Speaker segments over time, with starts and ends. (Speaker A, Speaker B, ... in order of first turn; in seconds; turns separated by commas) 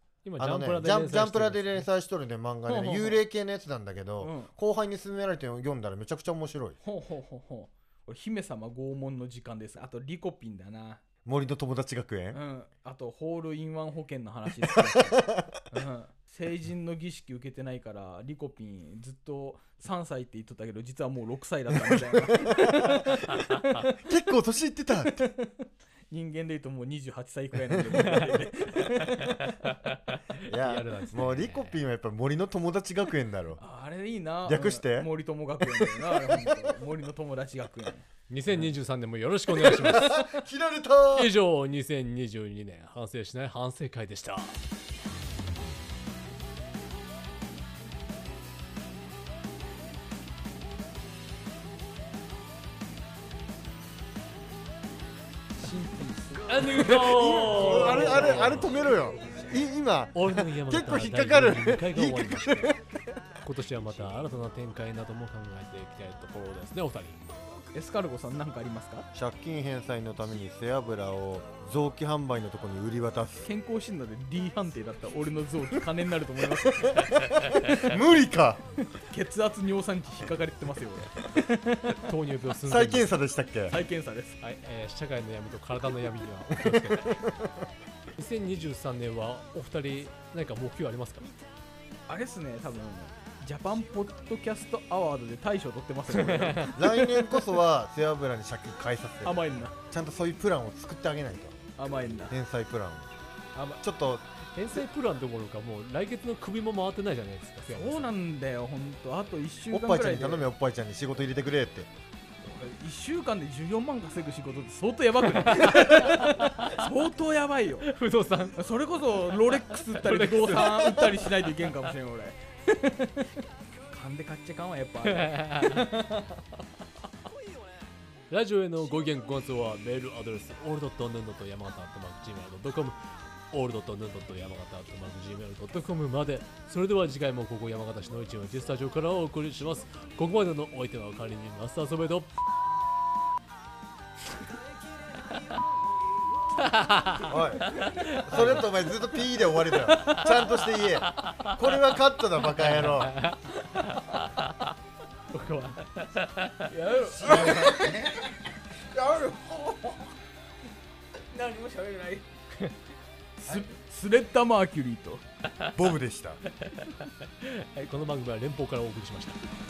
Speaker A: 0.2-1.9, Speaker B: 0.4-6.8, Speaker C: 2.7-3.2, Speaker C: 4.2-4.5, Speaker C: 6.8-11.0, Speaker B: 11.2-12.4, Speaker C: 12.3-23.9, Speaker B: 14.8-15.5, Speaker B: 21.7-25.3, Speaker C: 25.2-29.4, Speaker B: 27.9-28.4, Speaker A: 30.5-31.8, Speaker B: 30.5-33.6, Speaker C: 33.6-38.1, Speaker B: 34.5-35.1, Speaker B: 35.6-36.8, Speaker A: 38.3-40.4, Speaker B: 39.6-41.3, Speaker A: 41.1-44.5, Speaker C: 55.6-59.6, Speaker A: 56.5-58.7, Speaker B: 57.0-62.7, Speaker A: 60.1-62.8, Speaker A: 63.4-67.2, Speaker C: 67.7-69.1, Speaker B: 69.1-73.5, Speaker C: 73.4-77.1, Speaker B: 76.5-78.6, Speaker C: 79.1-82.1, Speaker A: 82.0-83.1, Speaker B: 82.7-83.8, Speaker C: 83.7-84.4, Speaker A: 84.4-87.2, Speaker B: 86.6-87.7, Speaker A: 88.2-91.3, Speaker C: 92.1-97.4, Speaker A: 96.1-96.7, Speaker B: 96.6-101.6, Speaker C: 99.2-99.8, Speaker C: 101.8-102.3, Speaker B: 102.2-103.1, Speaker B: 103.8-104.2, Speaker A: 104.5-108.1, Speaker C: 107.7-110.5, Speaker B: 109.7-111.9, Speaker C: 112.4-117.9, Speaker A: 115.4-116.8, Speaker A: 117.8-118.6, Speaker C: 118.6-123.3, Speaker A: 119.8-121.4, Speaker C: 123.9-126.4, Speaker A: 125.0-125.9, Speaker A: 128.3-133.0, Speaker A: 133.5-142.3, Speaker A: 146.6-148.7, Speaker B: 147.3-153.2, Speaker C: 150.0-150.5, Speaker A: 152.6-154.0, Speaker A: 155.3-155.9, Speaker C: 156.6-158.3, Speaker B: 157.2-158.2, Speaker C: 158.9-160.1, Speaker C: 161.3-162.3, Speaker C: 163.4-165.2, Speaker B: 165.7-166.4, Speaker A: 167.4-169.4